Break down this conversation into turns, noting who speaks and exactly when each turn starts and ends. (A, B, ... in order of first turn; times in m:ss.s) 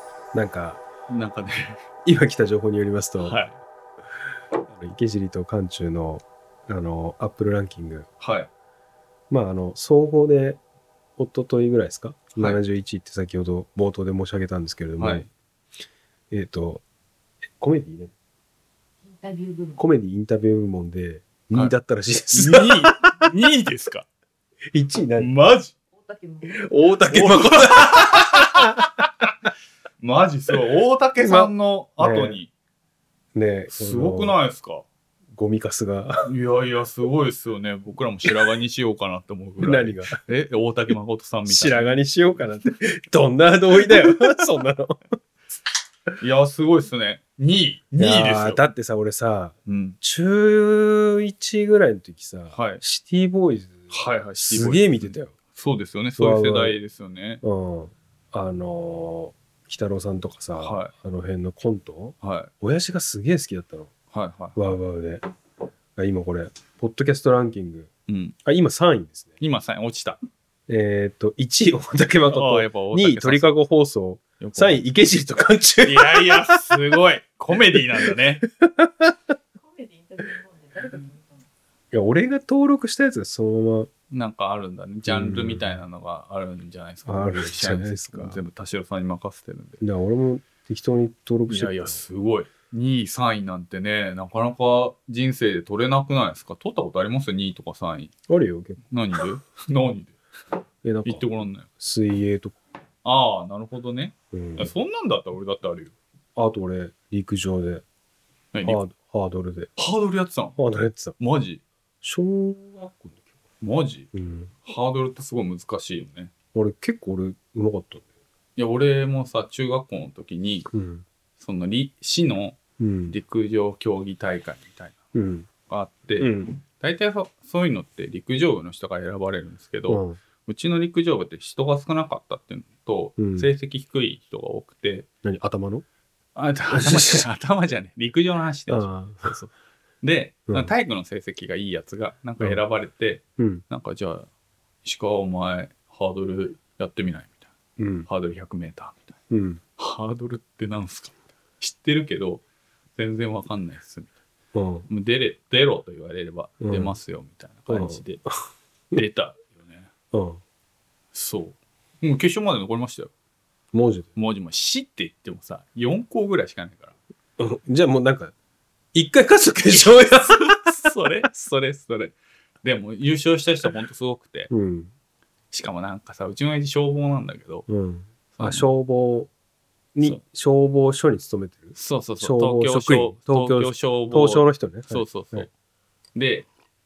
0:00.3-0:00.8 A
0:01.1-0:01.8 B
0:02.0-0:03.4 A
0:03.2-0:03.6 B
0:04.6-0:08.0 A
0:08.2-0:08.5 B
0:09.3-0:10.6 A
0:11.2-0:15.3 A
0:15.0-0:15.3 B
0:16.3-0:16.8 A
0:17.6-0:18.1 A
0:19.0-0:19.8 C
0:19.8-0:23.2 A
0:22.3-0:24.1 B
0:24.7-0:25.3 A
0:25.2-0:25.7 B
0:26.0-0:26.6 C
0:26.5-0:29.3 A
0:27.1-0:28.4 B
0:30.0-0:32.5 B
0:31.2-0:32.4 A
0:33.3-0:34.4 A
0:33.7-0:34.8 B
0:35.3-0:36.3 A
0:36.2-0:42.4 B
0:39.6-0:40.2 A
0:41.4-0:45.1 A
0:46.2-0:48.7 B
0:48.0-0:53.9 A
0:49.7-0:50.0 B
0:52.5-0:52.8 B
0:53.9-0:57.4 B
0:54.4-0:55.3 A
0:56.2-0:56.8 A
0:57.4-1:03.9 A
1:00.6-1:00.9 B
1:02.2-1:02.5 B
1:04.1-1:04.7 B
1:04.5-1:05.2 A
1:06.0-1:07.9 A
1:08.1-1:08.4 B
1:08.4-1:09.4 A
1:09.4-1:10.2 B
1:10.7-1:16.9 A
1:12.3-1:13.5 B
1:14.4-1:14.8 B
1:15.8-1:18.4 B
1:17.5-1:19.3 A
1:19.6-1:21.2 C
1:21.9-1:23.9 A
1:24.1-1:29.8 B
1:25.0-1:25.8 A
1:27.0-1:28.4 A
1:29.8-1:32.0 A
1:31.5-1:38.1 B
1:38.3-1:38.8 A
1:38.9-1:40.2 B
1:40.8-1:41.2 A
1:41.0-1:41.7 B
1:41.8-1:42.6 A
1:43.0-1:45.9 B
1:44.3-1:44.7 A
1:46.4-1:47.8 A
1:48.5-1:48.8 B
1:48.6-1:49.7 A
1:49.8-1:50.6 B
1:50.6-1:51.2 A
1:51.2-1:51.6 B
1:52.0-1:53.2 A
1:53.6-1:54.1 B
1:54.1-1:54.5 A
1:54.6-1:56.3 B
1:56.5-1:58.0 A
1:58.6-2:00.7 B
2:00.7-2:01.0 A
2:01.4-2:02.6 B
2:02.8-2:03.1 A
2:03.1-2:05.0 B
2:05.1-2:05.5 A
2:05.7-2:15.1 B
2:06.2-2:06.6 A
2:09.9-2:10.2 A
2:13.2-2:13.5 A
2:15.2-2:15.8 A
2:16.3-2:24.3 B
2:16.7-2:17.3 A
2:18.7-2:19.4 A
2:23.4-2:23.6 A
2:24.8-2:27.5 B
2:27.8-2:28.1 A
2:28.1-2:29.2 B
2:29.3-2:29.6 A
2:29.8-2:32.4 B
2:32.9-2:34.1 B
2:34.5-2:34.9 A
2:34.9-2:38.2 B
2:36.6-2:36.9 A
2:37.7-2:38.3 A
2:38.9-2:39.9 B
2:40.1-2:40.4 A
2:41.1-2:43.1 B
2:43.7-2:44.1 A
2:44.2-2:46.9 B
2:47.4-2:48.3 A
2:48.9-2:50.8 A
2:50.2-2:54.5 B
2:54.5-2:54.9 A
2:55.5-2:57.6 B
2:57.7-2:59.3 A
2:58.4-2:58.6 B
2:59.9-3:05.5 A
3:01.7-3:05.5 B
3:06.1-3:06.5 B